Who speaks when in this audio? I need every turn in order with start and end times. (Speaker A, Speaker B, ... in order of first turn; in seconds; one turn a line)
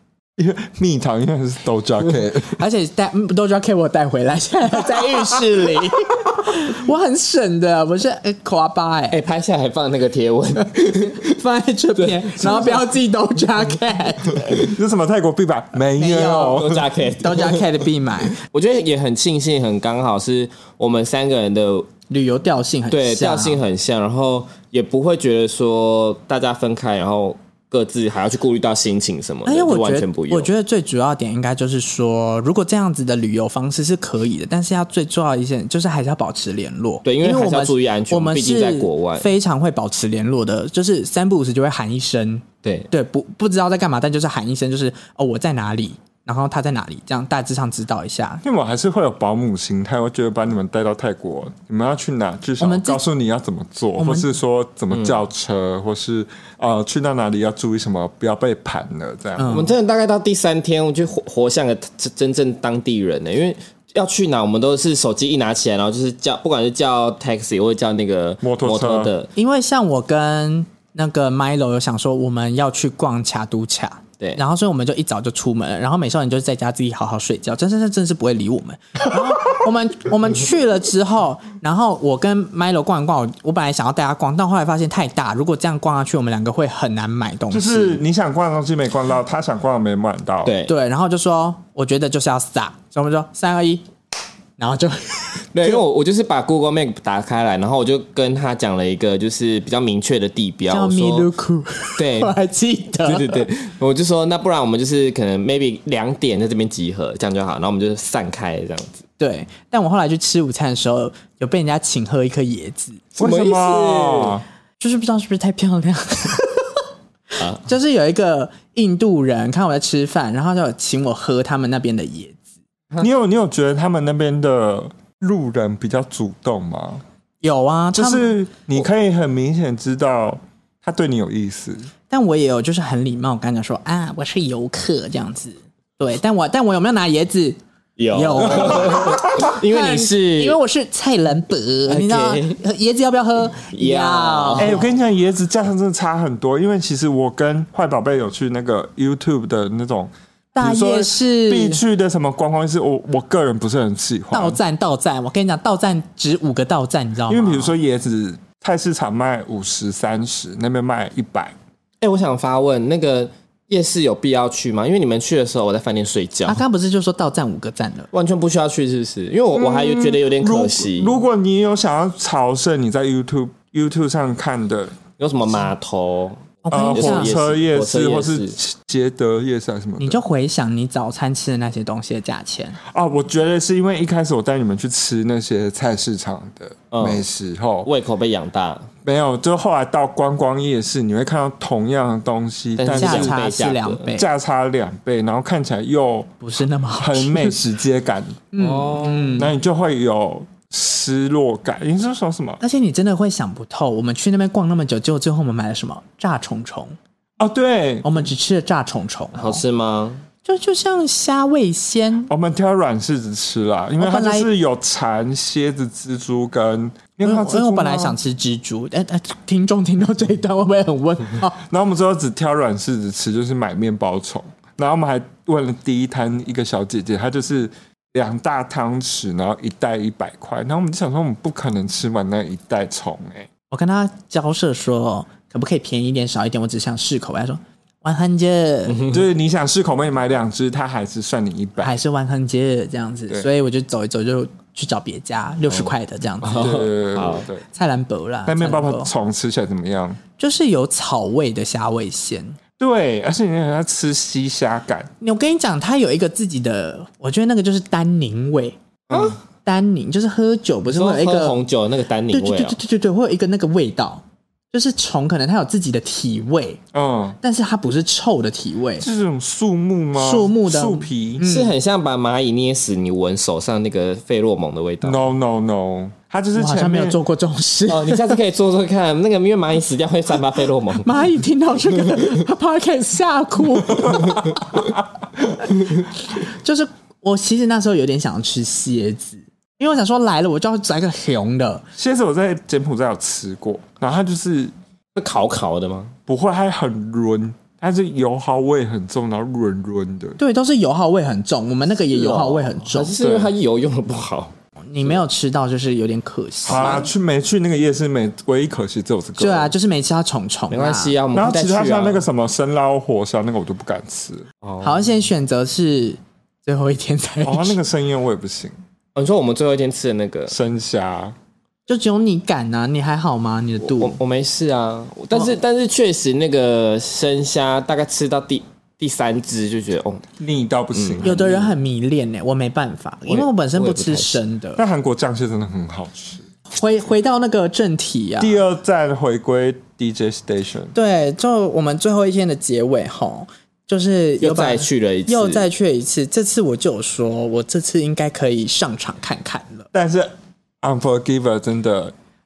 Speaker A: 0.4-2.6
Speaker B: 2.6-9.2
Speaker C: 9.1-11.3
Speaker B: 10.6-14.6
Speaker C: 12.0-12.8
Speaker C: 14.4-14.7
Speaker A: 14.6-16.9
Speaker B: 16.0-18.4
Speaker C: 16.3-17.7
Speaker C: 18.2-21.9
Speaker B: 22.1-23.6
Speaker C: 22.9-30.5
Speaker B: 29.4-48.4
Speaker C: 37.0-39.3
Speaker C: 42.6-42.9
Speaker A: 48.4-59.6
Speaker B: 52.6-53.0
Speaker B: 54.0-54.3
Speaker C: 54.9-55.2
Speaker B: 59.4-59.7
Speaker C: 59.5-69.3
Speaker A: 68.4-69.1
Speaker B: 69.4-88.0
Speaker A: 87.5-90.5
Speaker C: 90.5-90.7
Speaker B: 90.7-93.9
Speaker B: 94.6-95.8
Speaker C: 95.5-101.3
Speaker B: 100.7-103.5
Speaker C: 102.0-102.4
Speaker C: 103.0-109.0
Speaker B: 109.2-113.4
Speaker C: 113.2-114.4
Speaker A: 113.2-114.4
Speaker B: 114.8-116.9
Speaker B: 117.4-122.5
Speaker A: 123.0-127.0
Speaker B: 127.4-128.3
Speaker A: 127.9-131.9
Speaker B: 132.1-137.6
Speaker C: 138.0-140.6
Speaker B: 138.1-144.9
Speaker A: 138.8-139.1
Speaker C: 141.9-142.6
Speaker C: 143.7-144.7
Speaker A: 144.6-154.6
Speaker B: 150.6-151.8
Speaker B: 154.3-157.7
Speaker A: 157.3-161.6
Speaker C: 162.0-166.6
Speaker B: 166.5-168.1
Speaker C: 168.1-171.2
Speaker A: 169.5-175.0
Speaker C: 175.2-178.6
Speaker B: 176.7-177.4
Speaker A: 176.7-180.2
Speaker B: 180.0-182.8
Speaker A: 182.8-187.9
Speaker C: 186.9-187.2
Speaker C: 187.8-188.9
Speaker A: 189.1-193.4
Speaker C: 192.8-194.1
Speaker B: 192.9-194.3
Speaker A: 194.1-196.3
Speaker B: 196.4-197.6
Speaker A: 197.0-198.4
Speaker B: 198.5-199.5
Speaker C: 198.6-199.4
Speaker A: 199.4-202.6
Speaker B: 202.6-207.0
Speaker A: 207.4-208.3
Speaker B: 208.0-209.6
Speaker C: 209.3-210.2
Speaker B: 210.4-212.3
Speaker A: 212.3-218.2
Speaker B: 214.0-214.5
Speaker B: 217.2-221.6
Speaker A: 221.6-233.5
Speaker B: 233.7-239.0
Speaker C: 238.9-239.2
Speaker A: 239.1-242.0
Speaker B: 241.8-246.8
Speaker C: 246.4-247.5
Speaker A: 246.6-247.6
Speaker B: 247.7-249.1
Speaker A: 248.5-250.2
Speaker B: 250.4-252.6
Speaker A: 252.8-255.1
Speaker B: 255.2-258.8
Speaker A: 259.1-259.4
Speaker C: 259.1-259.4
Speaker B: 259.6-261.6
Speaker C: 260.9-262.8
Speaker B: 262.3-266.8
Speaker A: 266.9-267.4
Speaker B: 267.4-269.1
Speaker A: 269.0-271.5
Speaker B: 270.1-271.7
Speaker C: 271.4-275.2
Speaker A: 275.0-277.2
Speaker B: 276.6-278.4
Speaker C: 277.9-281.2
Speaker B: 281.0-284.9
Speaker A: 283.9-284.9
Speaker B: 286.4-291.8
Speaker A: 292.0-294.7
Speaker C: 295.2-296.1
Speaker A: 296.3-300.4
Speaker B: 300.4-303.1
Speaker C: 302.1-304.5
Speaker A: 303.2-303.5
Speaker B: 304.9-307.1
Speaker A: 306.6-309.7
Speaker B: 309.4-311.2
Speaker C: 310.7-312.3
Speaker A: 311.3-314.5
Speaker C: 314.6-315.1
Speaker B: 314.8-317.8
Speaker A: 317.4-318.8
Speaker C: 319.1-320.6
Speaker A: 320.5-321.4
Speaker B: 321.9-324.2
Speaker C: 323.8-330.3
Speaker B: 325.3-325.6
Speaker A: 330.4-331.4
Speaker C: 330.9-331.7
Speaker B: 331.2-334.8
Speaker C: 333.3-334.4
Speaker A: 334.8-336.4
Speaker B: 336.8-338.6
Speaker A: 338.4-340.9
Speaker B: 340.9-349.9
Speaker C: 344.4-345.7
Speaker A: 349.9-352.1